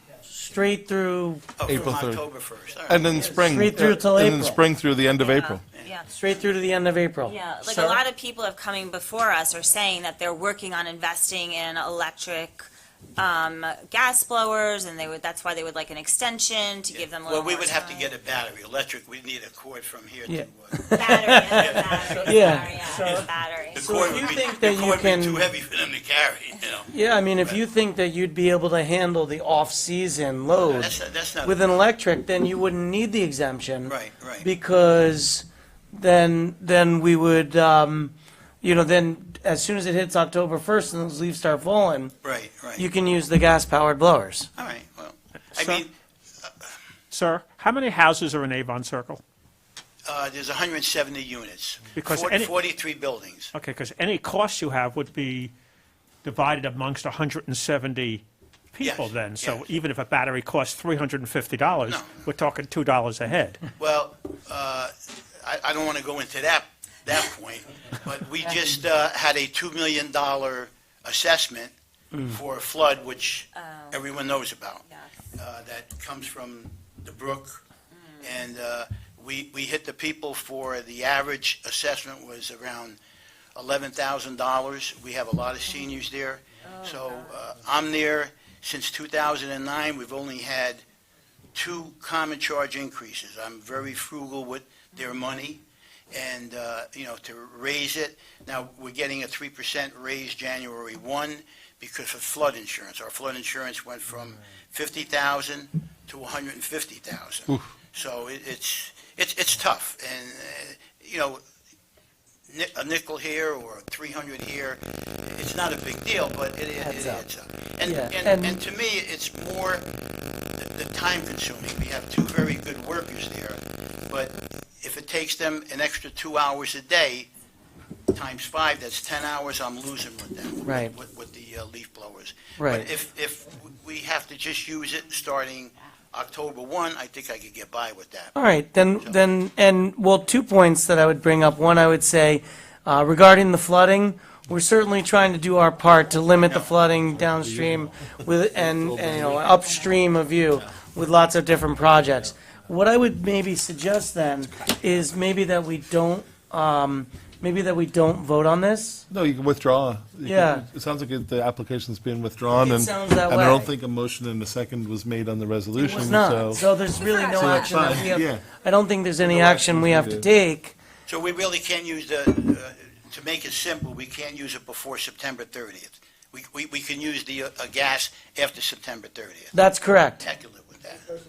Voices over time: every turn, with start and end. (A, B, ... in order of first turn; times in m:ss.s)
0:00.3-0:01.8 A
0:01.6-0:03.2 B
0:01.7-0:02.2 C
0:02.9-0:05.6 C
0:03.2-0:04.6 A
0:05.2-0:06.1 D
0:06.1-0:08.0 A
0:07.2-0:18.1 D
0:16.9-0:27.6 B
0:20.3-0:25.5 A
0:20.9-0:24.1 D
0:26.9-0:42.2 A
0:30.6-0:31.6 B
0:33.9-0:34.5 B
0:42.2-0:42.9 B
0:42.8-0:44.5 A
0:44.6-0:46.7 B
0:45.5-0:45.8 E
0:47.1-0:49.2 E
0:50.0-0:53.5 B
0:51.9-0:52.6 E
0:53.5-0:55.5 E
0:56.2-1:03.6 E
0:58.8-0:59.7 B
1:01.8-1:02.3 B
1:03.8-1:11.7 B
1:12.3-1:17.6 B
1:13.5-1:14.2 D
1:14.8-1:15.1 D
1:17.9-1:18.4 D
1:18.2-1:23.0 B
1:23.6-1:30.8 B
1:26.6-1:27.3 D
1:31.6-1:51.4 B
1:52.5-1:59.9 B
1:56.8-1:57.2 A
1:57.8-1:58.6 A
2:00.4-2:07.3 B
2:08.1-2:19.2 B
2:10.6-2:10.9 A
2:12.6-2:12.9 A
2:18.4-2:39.0 A
2:26.5-2:26.8 B
2:27.4-2:27.8 C
2:28.7-2:29.4 C
2:39.1-2:46.6 C
2:40.2-2:40.7 A
2:42.5-2:43.7 A
2:45.8-2:50.8 A
2:46.9-2:48.0 D
2:47.3-2:48.4 C
2:49.2-2:50.3 C
2:51.1-2:59.6 B
2:59.5-3:00.2 A
3:00.2-3:01.1 B